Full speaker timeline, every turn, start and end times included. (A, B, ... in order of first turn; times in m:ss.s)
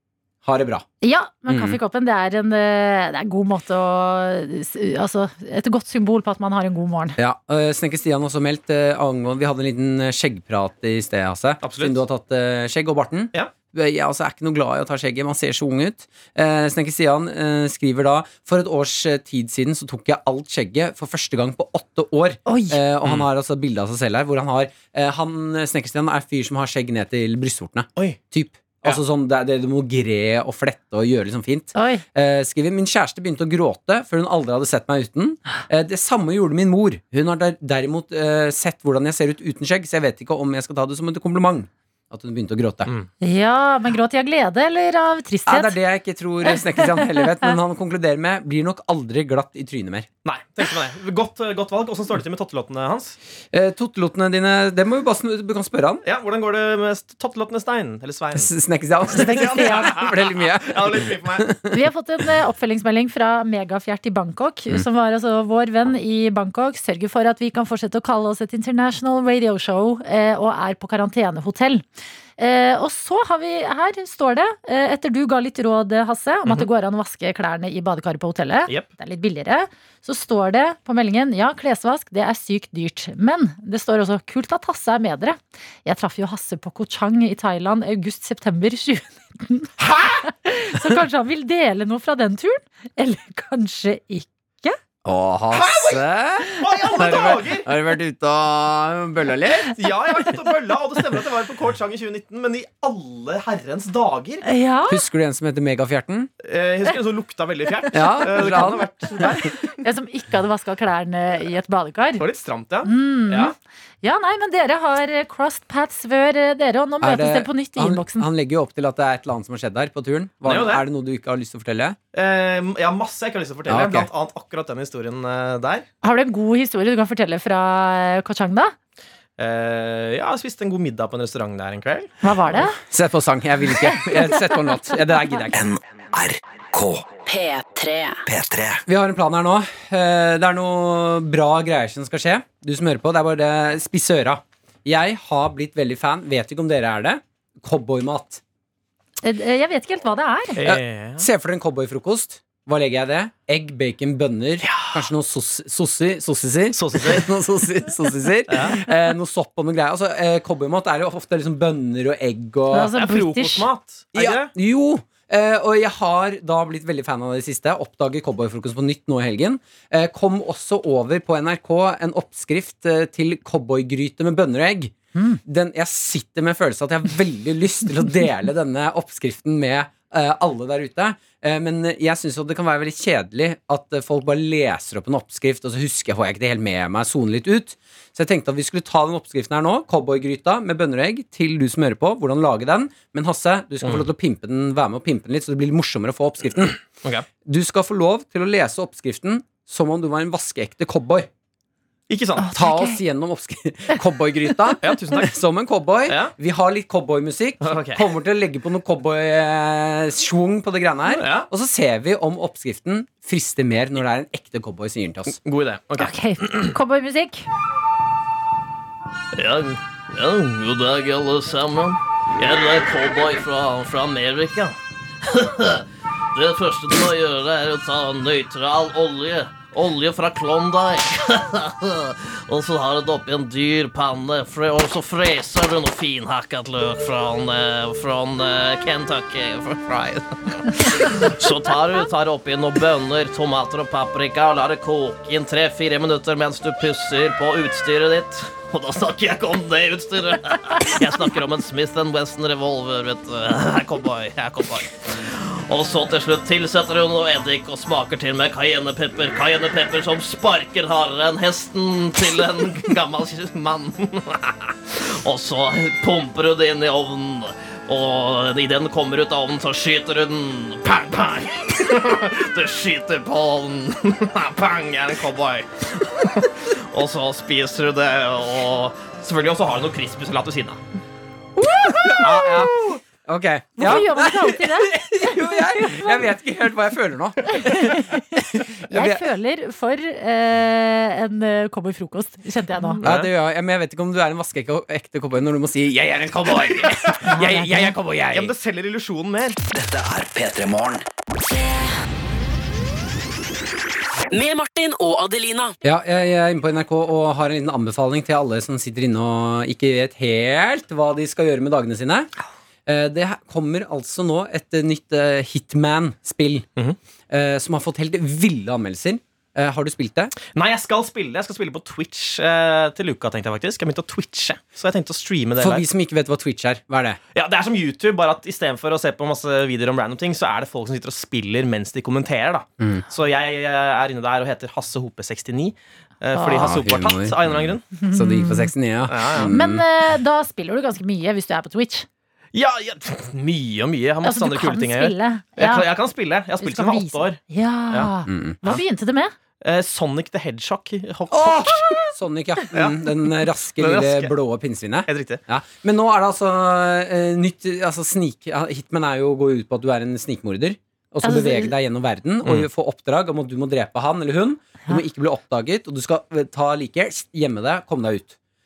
0:00.4-0:00.9 A
0:01.0-0:07.2 B
0:01.5-0:01.8 A
0:07.2-0:42.9 A
0:11.6-0:12.0 C
0:22.5-0:22.8 B
0:31.8-0:32.0 B
0:43.2-0:45.8 B
0:45.5-0:50.1 A
0:46.5-0:47.5 B
0:50.2-0:53.2 C
0:53.5-0:56.0 A
0:56.0-0:58.5 C
0:58.3-1:01.7 A
0:59.1-1:01.5 C
0:59.5-0:59.8 B
1:01.7-1:11.8 B
1:12.4-1:29.7 B
1:29.8-1:30.2 C
1:30.2-1:34.8 B
1:35.0-1:39.8 A
1:35.5-1:37.7 C
1:39.6-1:44.4 C
1:44.4-1:45.0 B
1:44.9-1:46.3 A
1:46.4-1:49.7 C
1:47.9-1:48.9 A
1:49.8-1:52.2 B
1:52.2-1:53.5 C
1:52.8-1:58.3 B
1:57.0-2:02.0 A
2:00.4-2:00.8 C
2:02.1-2:05.9 C
2:03.7-2:04.1 A
2:06.0-2:08.8 B
2:09.4-2:12.1 C
2:12.2-2:12.8 B
2:12.8-2:15.6 A
2:15.5-2:17.2 D
2:17.3-2:18.2 E
2:18.3-2:18.8 D
2:18.9-2:28.4 A
2:29.2-2:30.6 B
2:30.6-2:31.3 C
2:30.6-2:42.9 A
2:34.6-2:35.0 C
2:36.7-2:37.3 C
2:38.5-2:38.8 C
2:42.7-2:43.7 B
2:42.9-2:44.5 C
2:44.2-2:54.9 A
2:55.2-2:55.4 B
2:55.4-3:16.8 A
3:17.4-3:21.3 A
3:22.1-3:22.5 C
3:22.4-3:23.0 B
3:22.5-3:35.4 A
3:24.8-3:25.3 C
3:26.1-3:26.3 C
3:27.6-3:28.0 C
3:31.1-3:31.5 C
3:35.4-3:36.7 C
3:36.0-3:37.5 B
3:39.4-4:35.7 F
4:36.2-4:40.8 C
4:37.0-4:39.1 F
4:41.6-4:49.3 A
4:41.9-4:42.3 B
4:43.8-4:46.3 B
4:47.5-4:53.0 B
4:52.8-4:53.3 C
4:53.0-4:58.5 A
4:56.8-4:57.2 C
4:57.3-4:57.9 B
4:58.3-4:59.6 C
4:59.7-5:01.0 D
5:04.3-5:05.7 E
5:05.8-5:12.3 A
5:12.9-5:16.7 A
5:17.3-5:20.3 A
5:20.5-5:25.9 C
5:25.6-5:27.2 A
5:27.3-5:37.8 C
5:36.5-5:39.8 A
5:38.0-5:38.7 B
5:39.1-5:39.5 C
5:39.5-5:42.1 B
5:42.5-5:48.1 C
5:44.2-5:45.9 B
5:46.6-5:49.3 B
5:48.3-5:48.6 A
5:49.6-5:52.1 C
5:51.3-6:08.4 A
5:52.7-5:54.3 C
5:55.1-5:55.4 C
6:01.2-6:01.7 B